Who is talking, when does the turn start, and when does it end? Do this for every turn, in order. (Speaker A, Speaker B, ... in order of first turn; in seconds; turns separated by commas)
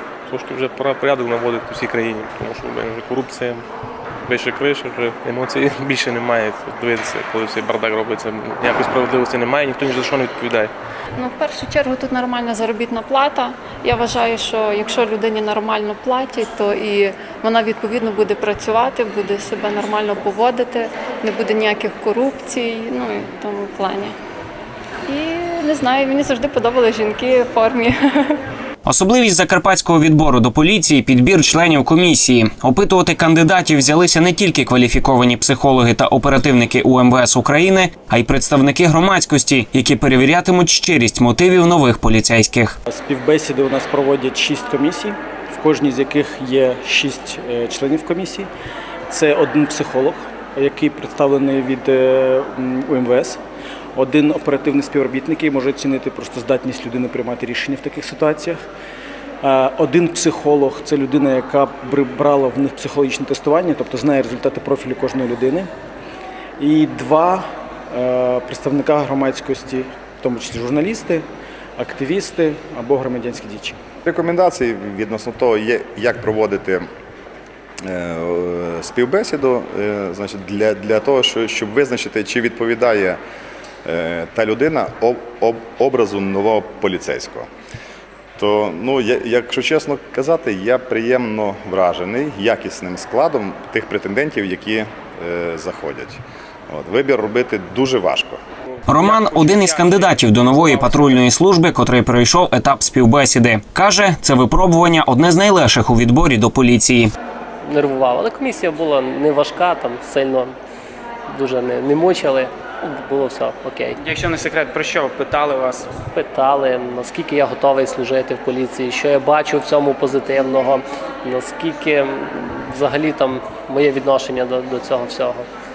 Speaker A: 0.3-3.6, Speaker A: 4.2-10.7, Speaker B: 11.1-24.1, Speaker B: 25.1-28.4, Speaker C: 28.8-42.7, Speaker D: 42.9-48.5, Speaker D: 49.1-53.4, Speaker D: 53.9-58.6, Speaker D: 59.4-65.7, Speaker D: 66.6-71.2, Speaker D: 71.8-73.8, Speaker E: 74.0-76.9, Speaker E: 77.8-83.2, Speaker E: 83.8-87.5, Speaker E: 88.4-98.4, Speaker C: 98.9-107.1, Speaker F: 98.9-101.1, Speaker G: 107.6-110.5, Speaker G: 111.3-114.0, Speaker F: 114.0-115.9, Speaker G: 116.1-125.5